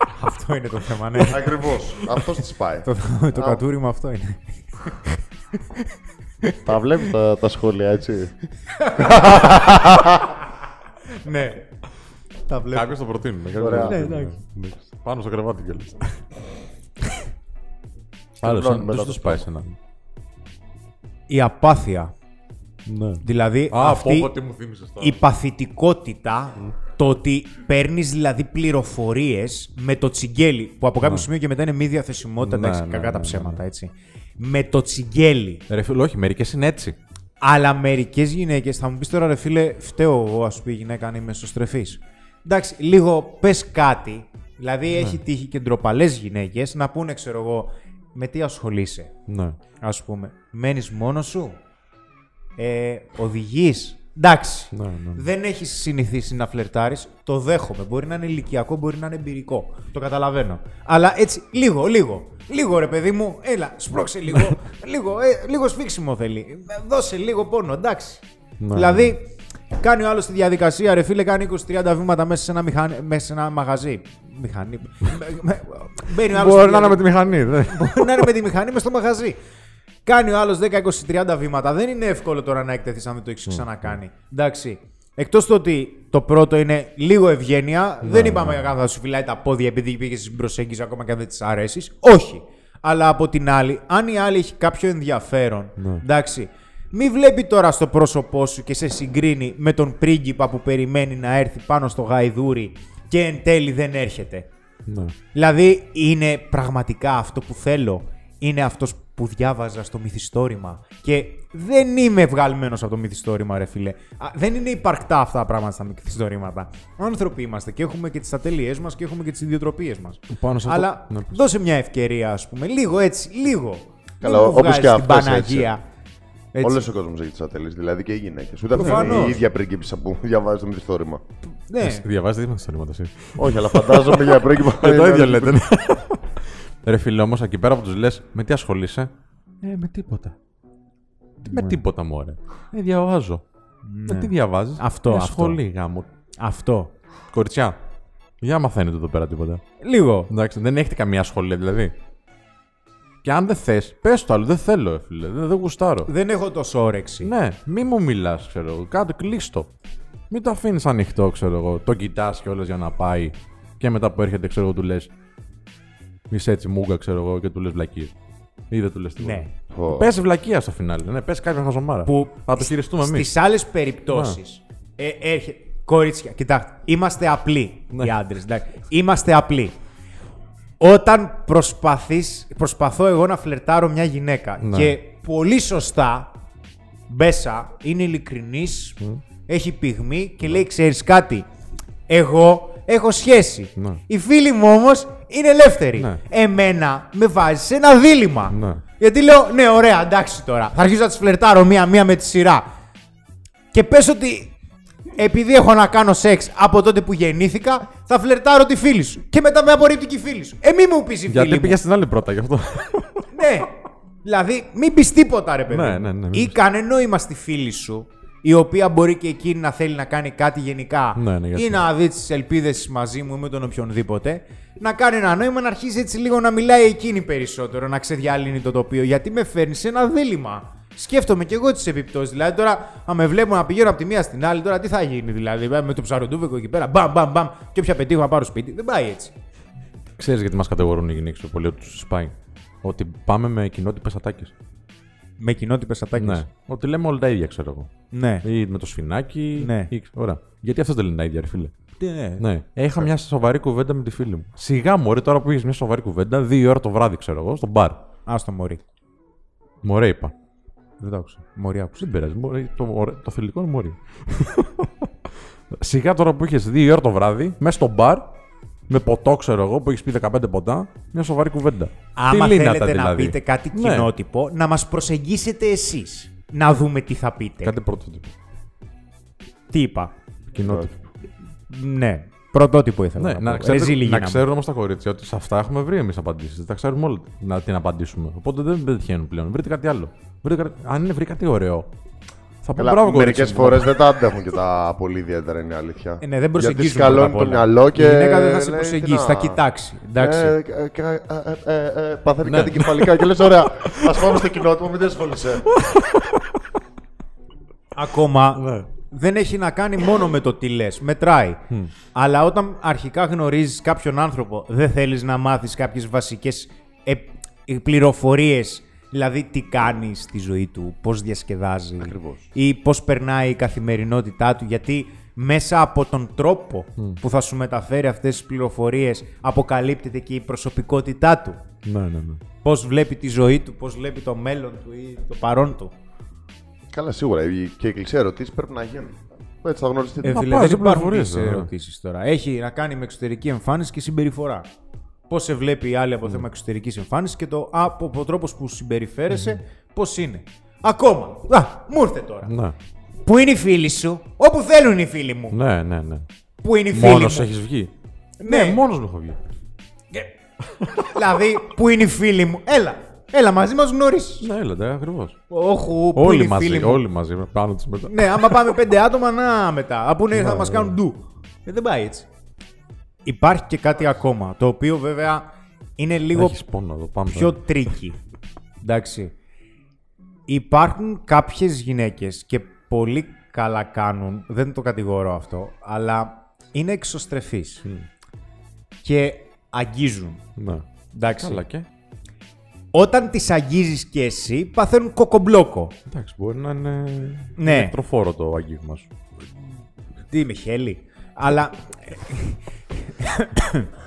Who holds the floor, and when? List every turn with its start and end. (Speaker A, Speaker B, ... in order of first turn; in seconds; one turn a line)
Speaker A: 0.1-1.7
Speaker B: 1.2-3.6
Speaker A: 2.9-5.9
Speaker A: 6.4-6.7
Speaker B: 6.7-8.3
Speaker A: 8.7-9.9
Speaker B: 9.0-10.4
Speaker A: 11.1-11.7
Speaker A: 12.5-12.9
Speaker C: 12.7-16.2
Speaker B: 13.6-14.0
Speaker A: 13.6-14.4
Speaker B: 18.4-19.5
Speaker C: 18.4-19.8
Speaker A: 21.3-22.1
Speaker C: 22.9-25.2
Speaker A: 23.2-24.3
Speaker A: 25.0-35.6
Speaker C: 31.0-31.3
Speaker C: 32.4-33.6
Speaker C: 35.7-37.0
Speaker A: 37.4-49.1
Speaker C: 49.3-49.6
Speaker A: 49.8-51.6
Speaker A: 52.6-79.4
Speaker C: 54.7-55.2
Speaker C: 68.6-69.2
Speaker C: 76.3-78.3
Speaker A: 80.1-104.5
Speaker C: 83.5-83.9
Speaker C: 88.0-88.7
Speaker C: 95.8-96.0
Speaker C: 104.9-105.2
Speaker A: 105.3-125.8
Speaker C: 120.3-121.4
Speaker B: 124.2-125.7
Speaker A: 126.5-126.8
Speaker B: 126.6-131.2
Speaker C: 128.8-129.4
Speaker A: 128.8-129.4
Speaker A: 131.5-132.1
Speaker C: 131.8-139.1
Speaker B: 133.4-135.6
Speaker C: 139.6-140.4
Speaker C: 141.4-143.4
Speaker A: 141.5-141.8
Speaker A: 143.8-145.6
Speaker C: 144.1-146.1
Speaker A: 146.4-146.9
Speaker C: 147.3-147.8
Speaker C: 148.4-149.6
Speaker A: 149.8-150.3
Speaker C: 150.3-151.9
Speaker C: 153.2-156.1
Speaker A: 156.1-157.3
Speaker C: 157.2-159.7
Speaker C: 160.3-165.1
Speaker C: 166.3-168.2
Speaker C: 168.7-173.3
Speaker A: 169.2-169.5
Speaker B: 169.7-170.1
Speaker A: 172.1-179.8
Speaker C: 174.1-174.4
Speaker A: 180.8-186.3
Speaker C: 184.6-184.9
Speaker A: 187.1-191.5
Speaker A: 192.1-202.7
Speaker C: 193.8-194.0
Speaker C: 198.5-198.8
Speaker A: 203.7-204.5
Speaker A: 205.2-211.8
Speaker C: 211.3-213.3
Speaker A: 213.3-239.3
Speaker C: 215.7-216.6
Speaker C: 221.2-221.8
Speaker C: 240.2-244.5
Speaker A: 245.4-246.5
Speaker C: 246.2-247.9
Speaker A: 248.1-248.4
Speaker C: 248.4-251.7
Speaker A: 249.6-249.9
Speaker A: 252.0-252.4
Speaker C: 252.4-258.0
Speaker A: 258.3-258.8
Speaker C: 259.8-260.3
Speaker A: 261.0-262.1
Speaker C: 262.0-265.1
Speaker C: 265.7-268.4
Speaker C: 268.9-274.1
Speaker A: 272.2-277.7
Speaker C: 277.6-278.3
Speaker A: 279.7-280.1
Speaker C: 280.5-280.9
Speaker B: 280.6-280.9
Speaker A: 281.7-284.4
Speaker C: 283.2-291.9
Speaker C: 292.6-294.0
Speaker B: 292.8-299.6
Speaker A: 296.2-300.6
Speaker B: 300.2-305.7
Speaker C: 302.4-304.4
Speaker C: 305.7-306.4
Speaker A: 307.9-331.6
Speaker C: 308.6-308.9
Speaker B: 322.0-322.5
Speaker C: 331.8-332.4
Speaker A: 332.6-335.9
Speaker B: 336.9-340.4
Speaker A: 340.2-344.7
Speaker C: 340.3-341.7
Speaker A: 345.3-352.5
Speaker C: 349.3-349.6
Speaker C: 352.4-352.8
Speaker A: 353.2-355.6
Speaker C: 355.5-356.3
Speaker A: 356.6-357.5
Speaker C: 356.9-357.9
Speaker A: 358.4-358.8
Speaker C: 358.4-359.4
Speaker C: 360.6-361.1
Speaker A: 360.9-364.5
Speaker C: 364.4-365.4
Speaker A: 365.5-367.0
Speaker C: 366.1-368.8
Speaker A: 368.1-372.3
Speaker C: 370.3-370.9
Speaker A: 373.2-376.6
Speaker C: 376.3-377.6
Speaker A: 377.3-378.2
Speaker A: 378.8-379.3
Speaker A: 380.5-387.9
Speaker A: 389.0-390.5
Speaker C: 390.6-391.9
Speaker A: 391.1-391.6
Speaker A: 392.9-395.9
Speaker C: 396.1-399.1
Speaker A: 397.6-397.9
Speaker A: 400.3-403.9